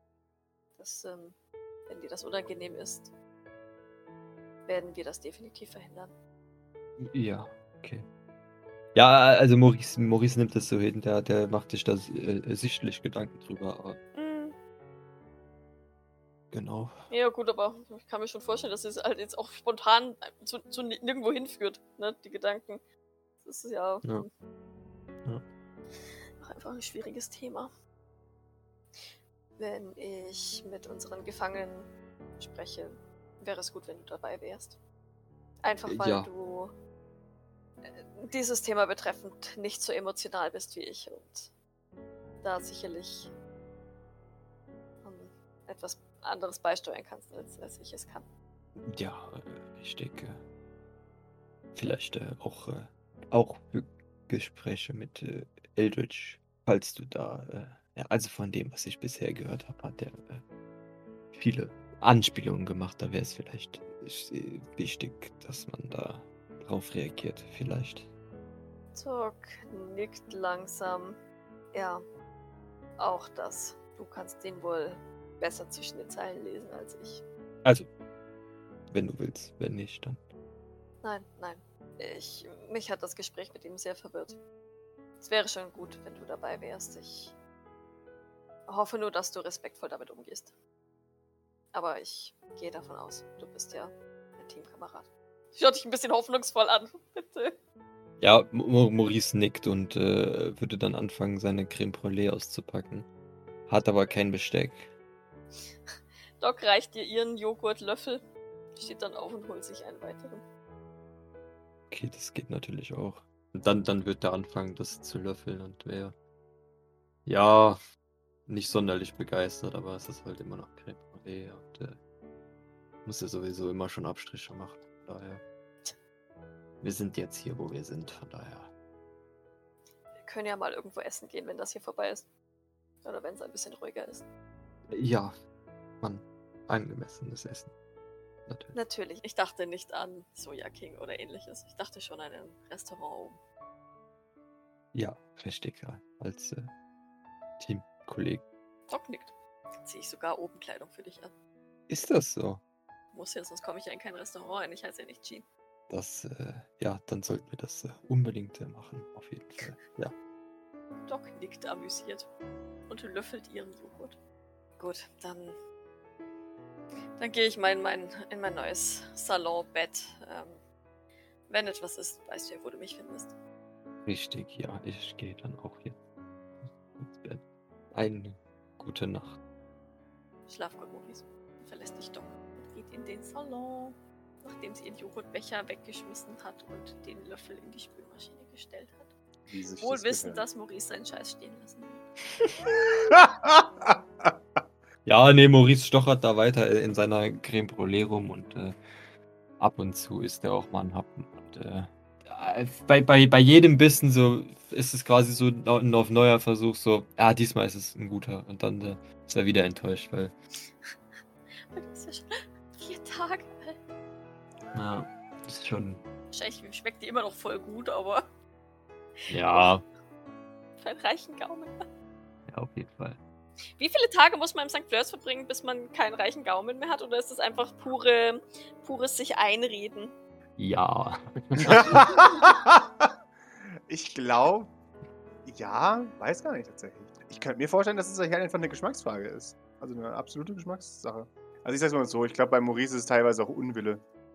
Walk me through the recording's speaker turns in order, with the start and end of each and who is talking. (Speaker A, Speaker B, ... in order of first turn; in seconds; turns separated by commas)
Speaker A: 0.8-3.1, Speaker A: 4.7-6.1, Speaker B: 7.0-8.1, Speaker B: 8.9-14.0, Speaker A: 14.1-14.6, Speaker B: 16.5-17.1, Speaker A: 17.1-22.8, Speaker A: 23.4-24.3, Speaker A: 26.4-27.7, Speaker A: 28.9-34.8, Speaker A: 35.6-36.7, Speaker B: 35.9-36.3, Speaker A: 37.8-41.5, Speaker A: 42.4-43.3, Speaker A: 45.0-48.3, Speaker B: 48.9-50.4, Speaker B: 51.7-60.4, Speaker B: 61.3-68.1, Speaker A: 68.9-71.2, Speaker A: 71.7-72.0, Speaker A: 73.0-77.2, Speaker B: 78.9-80.2, Speaker A: 81.0-84.4, Speaker A: 85.2-87.4, Speaker A: 88.7-90.5, Speaker A: 91.7-97.6, Speaker B: 98.2-103.1, Speaker B: 103.7-104.9, Speaker A: 106.4-108.2, Speaker A: 108.7-110.4, Speaker B: 111.9-116.2, Speaker B: 117.3-117.8, Speaker B: 118.5-122.0, Speaker B: 123.0-125.4, Speaker B: 126.8-128.7, Speaker A: 130.2-132.3, Speaker A: 133.0-134.3, Speaker B: 134.9-135.3, Speaker B: 136.0-137.7, Speaker B: 138.5-138.8, Speaker A: 138.7-143.4, Speaker B: 144.9-146.7, Speaker B: 147.6-148.4, Speaker A: 148.9-151.3, Speaker B: 151.9-152.6, Speaker A: 153.1-155.5, Speaker B: 155.9-160.1, Speaker A: 161.1-162.3, Speaker A: 162.9-164.2, Speaker A: 164.8-165.6, Speaker A: 167.2-170.6, Speaker A: 171.5-173.4, Speaker B: 174.1-176.0, Speaker B: 176.6-179.4, Speaker A: 180.5-189.1, Speaker C: 189.5-190.4, Speaker A: 189.8-192.1, Speaker C: 193.1-194.6, Speaker B: 195.1-198.8, Speaker B: 199.6-210.3, Speaker A: 211.7-213.8, Speaker B: 214.7-216.0, Speaker A: 216.3-218.3, Speaker A: 219.2-219.8, Speaker B: 219.3-219.8, Speaker A: 220.8-221.7, Speaker B: 222.5-223.2, Speaker A: 223.8-230.2, Speaker B: 230.6-232.1, Speaker C: 231.7-233.1, Speaker C: 233.9-234.7, Speaker C: 235.4-244.0